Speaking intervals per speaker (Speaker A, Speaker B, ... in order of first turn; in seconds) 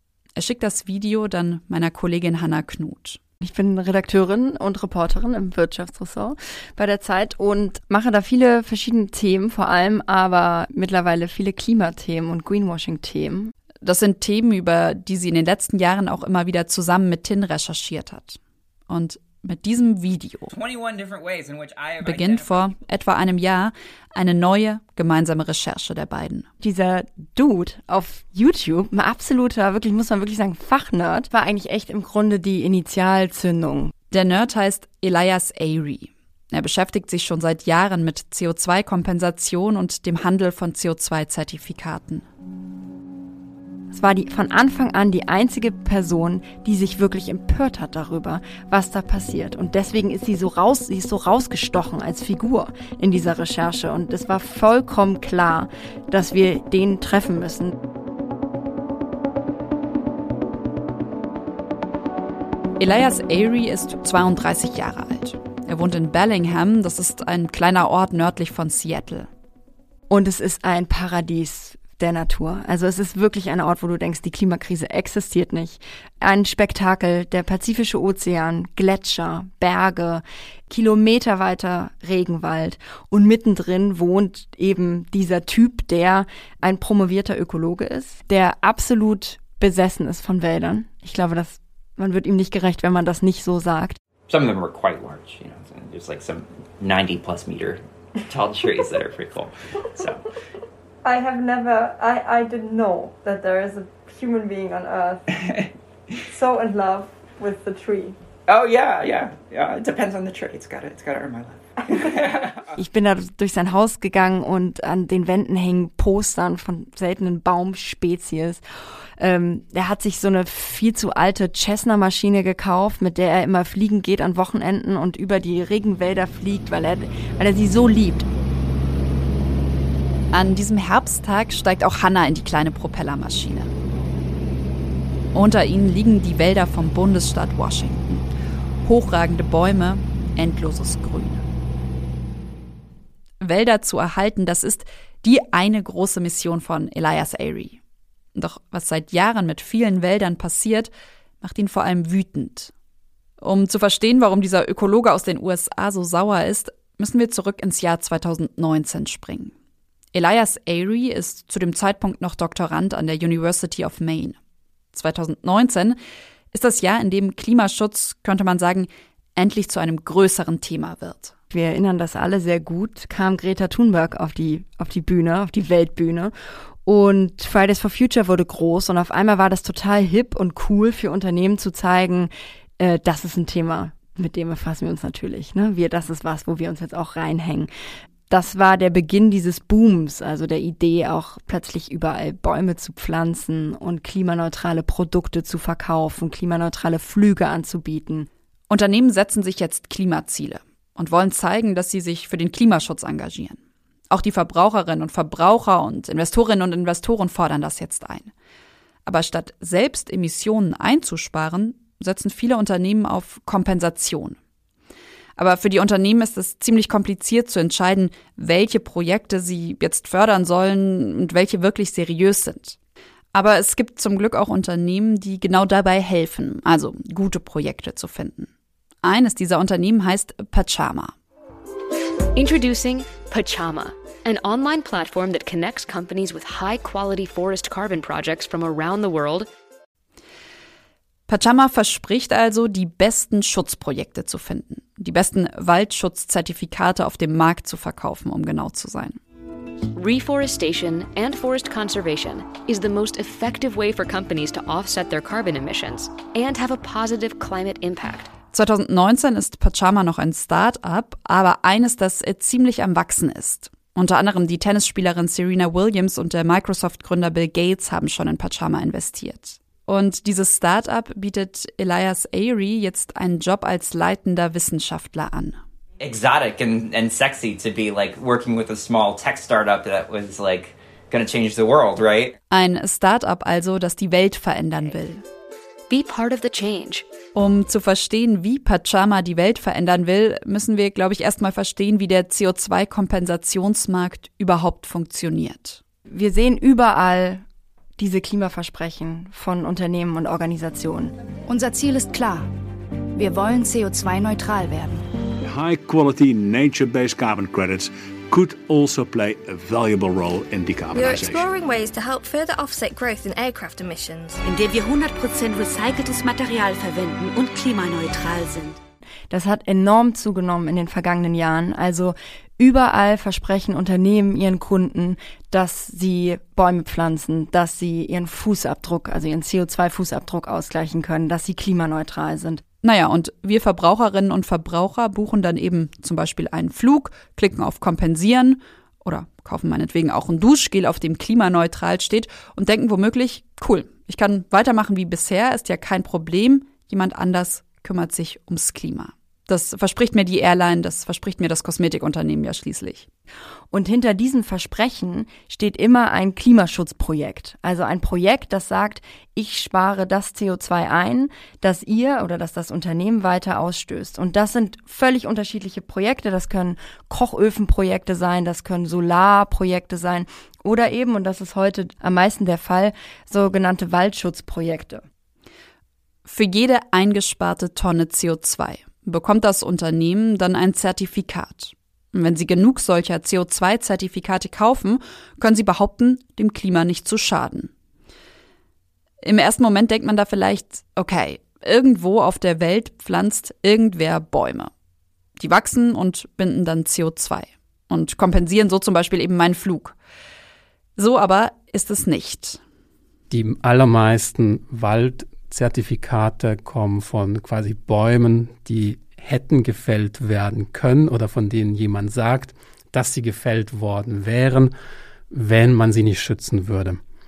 Speaker A: 0.4-3.2, 13.8-20.5, 22.0-26.5, 34.1-42.2, 62.8-69.3, 130.3-133.7, 135.3-138.2, 138.8-141.4, 143.4-147.8, 148.3-152.7, 153.4-159.5, 160.1-164.4, 164.9-166.0, 166.5-171.3, 198.7-203.6, 204.1-208.3, 209.1-214.4, 215.4-222.8, 223.3-228.5, 229.0-231.1, 241.3-249.2, 258.5-275.6, 282.5-285.2, 287.4-295.8, 332.8-353.1, 376.3-387.7, 389.2-394.7, 395.4-399.9, 401.0-402.6
Speaker B: 3.4-13.5, 26.6-33.9, 43.9-57.7, 70.1-94.0, 101.0-105.4, 106.3-108.2, 112.7-118.6, 119.2-128.3, 171.5-176.3, 176.8-187.7, 188.3-198.3, 296.1-297.4, 298.0-301.1, 319.3-332.6, 353.7-375.1
Speaker C: 20.5-22.8, 94.3-100.2, 108.5-112.7, 276.0-282.4
Speaker D: 232.3-239.5, 249.9-258.3, 285.9-287.1
Speaker E: 301.5-302.5, 303.1-305.1, 314.4-318.8
Speaker F: 305.4-311.5
Speaker G: 311.0-314.4
Speaker H: 403.3-414.7, 415.3-417.0